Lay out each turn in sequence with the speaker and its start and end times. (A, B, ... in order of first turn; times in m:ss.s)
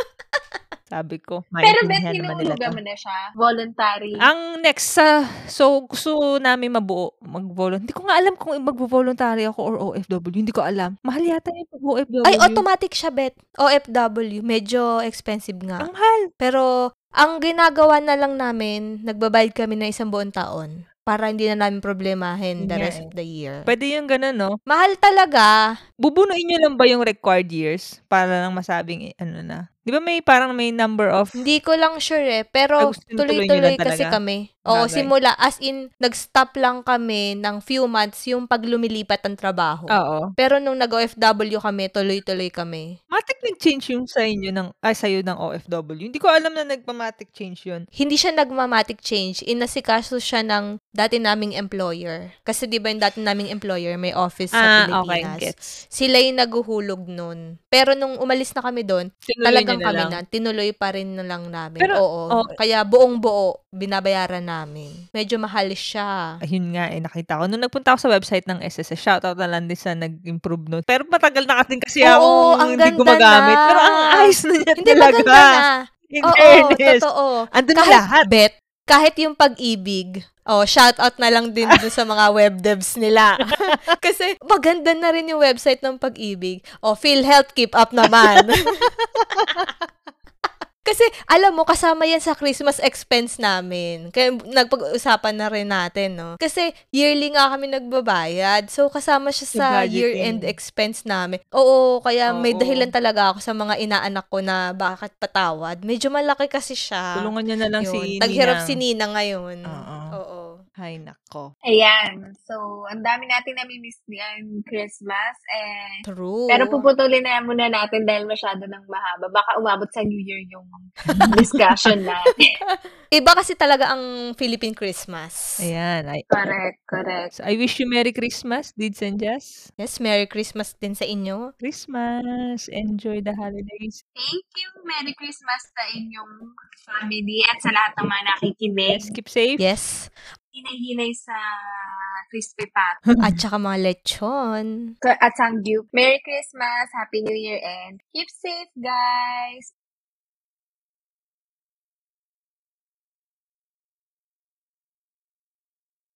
0:00.9-0:02.8 A
0:01.6-0:04.3 B
0:04.2-0:12.6 A
0:12.2-0:15.9 C
0:15.8-0:16.3 A
0:16.4-0:16.6 C
0:17.2-0:23.7 C
0:22.6-0:23.1 A
0:23.7-0:24.5 A
0:24.7-0:25.5 C
0:26.0-0:31.3 A
0:31.4-0:42.9 C
0:32.8-0:34.1 A
0:34.7-0:35.1 A
0:39.9-0:40.3 A
0:43.1-0:47.8 A
0:48.0-1:06.1 C
0:54.6-0:55.8 A
0:59.3-1:00.2 A
1:01.8-1:02.5 A
1:06.4-1:15.6 A
1:12.0-1:15.7 C
1:16.1-1:18.3 A
1:16.3-1:29.7 C
1:28.0-1:28.4 A
1:29.4-1:29.7 A
1:30.8-1:47.3 C
1:39.5-1:40.5 A
1:42.3-1:42.9 A
1:47.2-1:48.8 A
1:47.8-1:50.6 C
1:49.7-1:50.1 A
1:50.8-1:51.5 A
1:51.7-1:56.0 B
1:56.0-1:56.8 C
1:56.5-2:02.4 B
2:01.1-2:01.6 A
2:03.1-2:05.6 C
2:05.6-2:06.2 A
2:06.3-2:07.3 B
2:07.3-2:09.7 A
2:09.8-2:11.5 C
2:11.6-2:14.0 A
2:14.2-2:19.1 B
2:18.9-2:19.7 A
2:19.6-2:20.1 C
2:20.5-2:21.4 B
2:22.3-2:23.0 B
2:23.1-2:23.4 A
2:23.2-2:24.9 C
2:25.0-2:29.7 B